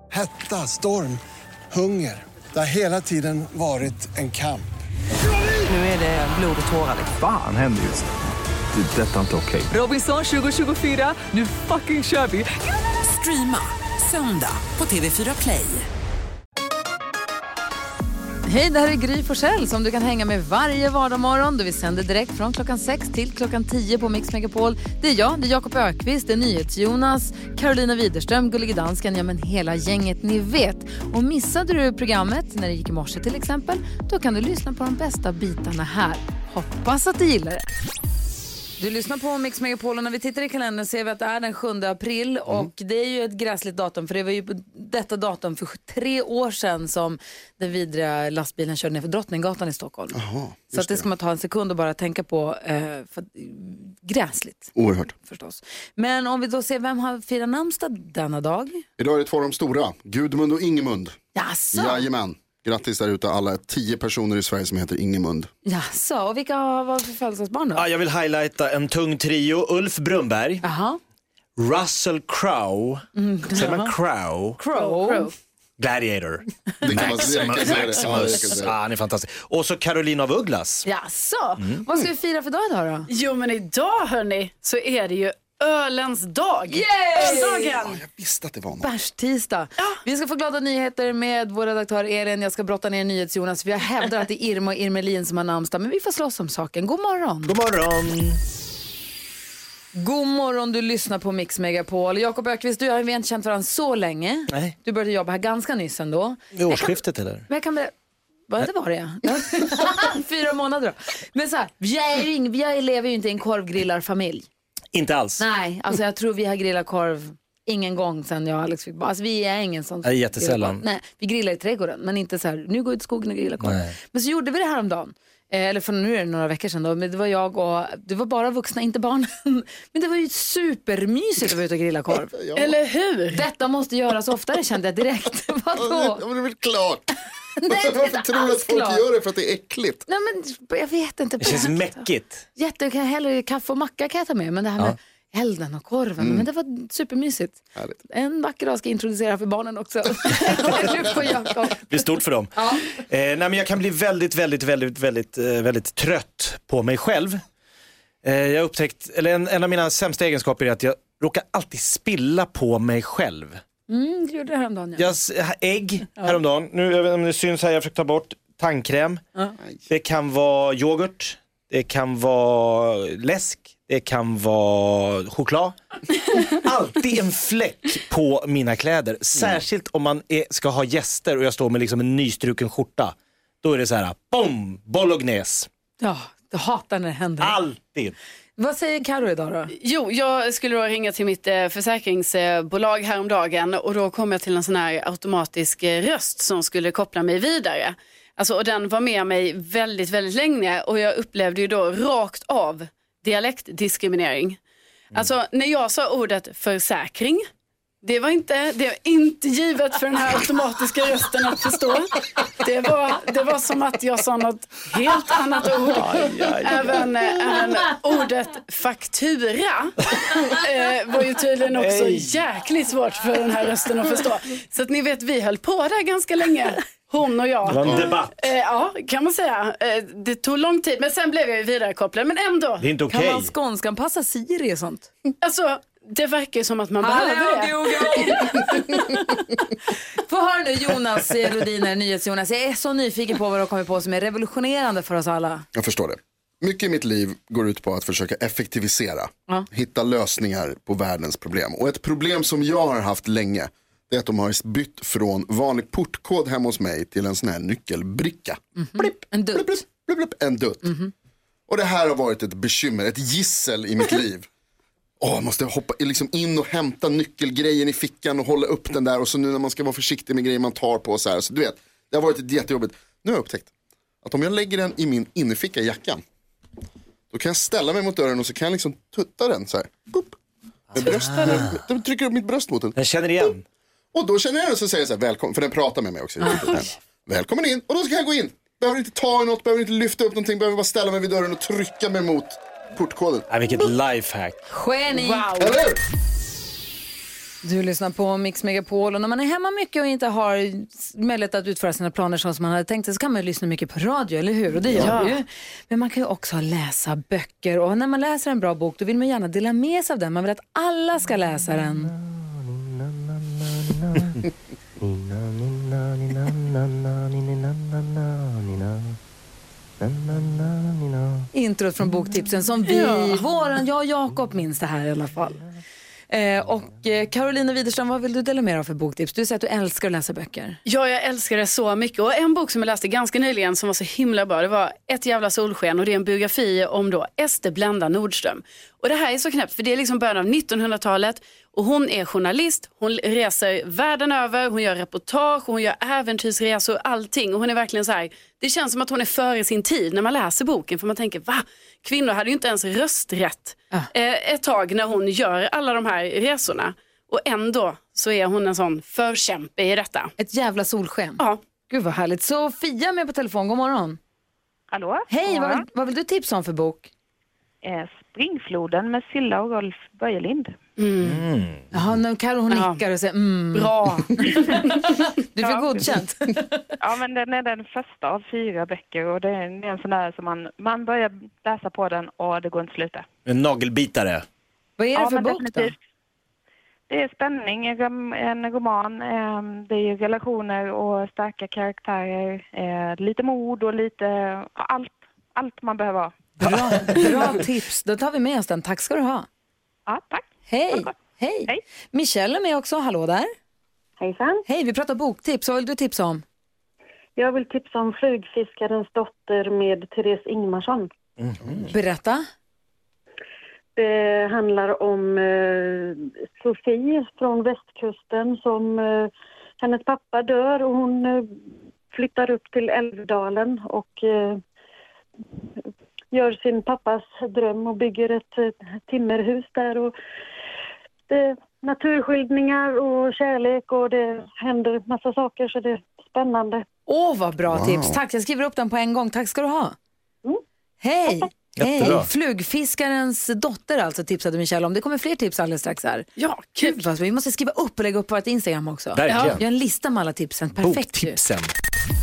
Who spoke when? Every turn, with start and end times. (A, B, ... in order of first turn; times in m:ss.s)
0:00.1-0:04.7 A
0:05.6-0:07.2 B
0:07.1-0:08.1 C
0:08.7-0:09.7 C
0:09.7-0:15.9 B
0:18.4-0:37.6 D
0:38.8-0:58.8 D
0:50.1-0:51.0 E
0:54.8-0:55.1 E
0:59.0-1:01.2 E
1:01.3-1:02.1 D
1:01.7-1:05.5 E
1:05.6-1:07.8 D
1:07.8-1:10.6 F
1:10.6-1:11.0 D
1:11.6-1:14.6 F
1:13.1-1:13.9 D
1:14.6-1:15.3 D
1:14.8-1:15.3 G
1:15.8-1:20.9 F
1:16.8-1:18.7 E
1:20.8-1:23.1 D
1:23.1-1:28.0 G
1:26.7-1:27.7 D
1:27.8-1:28.9 E
1:28.8-1:37.6 D
1:37.4-1:38.4 F
1:39.9-1:47.9 D
1:46.5-1:47.4 F
1:48.5-1:54.5 D
1:54.9-1:55.4 F
1:55.4-2:12.3 D
2:00.0-2:00.8 F
2:03.6-2:04.0 F
2:12.3-2:12.7 E
2:12.6-2:13.4 G
2:13.3-2:16.2 D
2:15.8-2:17.1 E
2:17.6-2:19.0 D
2:17.6-2:20.0 E
2:20.1-2:32.0 D
2:21.4-2:22.4 F
2:26.2-2:26.4 E
2:31.9-2:37.4 F
2:32.6-2:32.9 D
2:38.2-2:43.6 F
2:43.9-2:45.1 D
2:45.0-2:49.2 F
2:49.9-2:55.7 F
2:56.4-3:05.7 F
3:06.0-3:07.6 D
3:07.4-3:08.1 F
3:08.6-3:09.7 D
3:09.7-3:24.6 G
3:25.1-3:27.4 G
3:28.0-3:52.8 G
3:35.9-3:36.9 F
3:41.7-3:42.4 F
3:47.6-3:48.5 F
3:52.8-3:53.5 F
3:53.1-3:55.1 D
3:55.4-3:58.8 G
3:57.0-3:59.4 D
4:00.2-4:05.7 D
4:05.7-4:20.9 E
4:18.8-4:19.8 D
4:20.8-4:21.1 D
4:21.7-4:24.5 E
4:25.2-4:33.7 E
4:34.2-4:36.2 E
4:37.3-4:40.4 E
4:40.9-4:41.8 F
4:40.9-4:42.9 E
4:43.0-4:43.6 F
4:44.1-4:53.9 E
4:53.5-4:54.6 F
4:54.7-4:55.5 D
4:55.2-4:55.8 G
4:55.6-4:56.0 E
4:57.6-5:12.1 D
5:05.0-5:05.4 G
5:21.5-5:25.6 D
5:22.9-5:23.4 G
5:26.3-5:30.8 D
5:30.8-6:00.3 G
6:00.4-6:04.2 D
6:04.9-6:05.8 H
6:05.3-6:07.1 D
6:07.8-6:10.7 H
6:11.0-6:11.4 G
6:11.2-6:11.8 F
6:11.9-6:16.8 D
6:12.7-6:13.0 G
6:13.7-6:15.0 G
6:17.0-6:23.2 H
6:23.4-6:24.4 F
6:25.0-6:25.9 D
6:25.1-6:25.9 H
6:27.1-6:36.5 H
6:36.6-6:39.5 D
6:40.1-6:41.1 H
6:40.7-6:43.5 D
6:44.2-6:44.6 I
6:44.7-6:46.4 D
6:47.4-6:51.1 I
6:51.4-6:51.9 F
6:51.9-6:52.4 D
6:54.0-6:59.3 I
6:59.8-7:01.5 I
7:02.1-7:04.6 I
7:06.3-7:10.1 I
7:11.3-7:16.8 I
7:17.1-7:20.0 D
7:17.7-7:18.2 E
7:21.0-7:31.4 D
7:21.8-7:22.3 F
7:26.4-7:27.0 G
7:29.1-7:29.6 F
7:29.3-7:29.6 G
7:30.8-7:31.7 F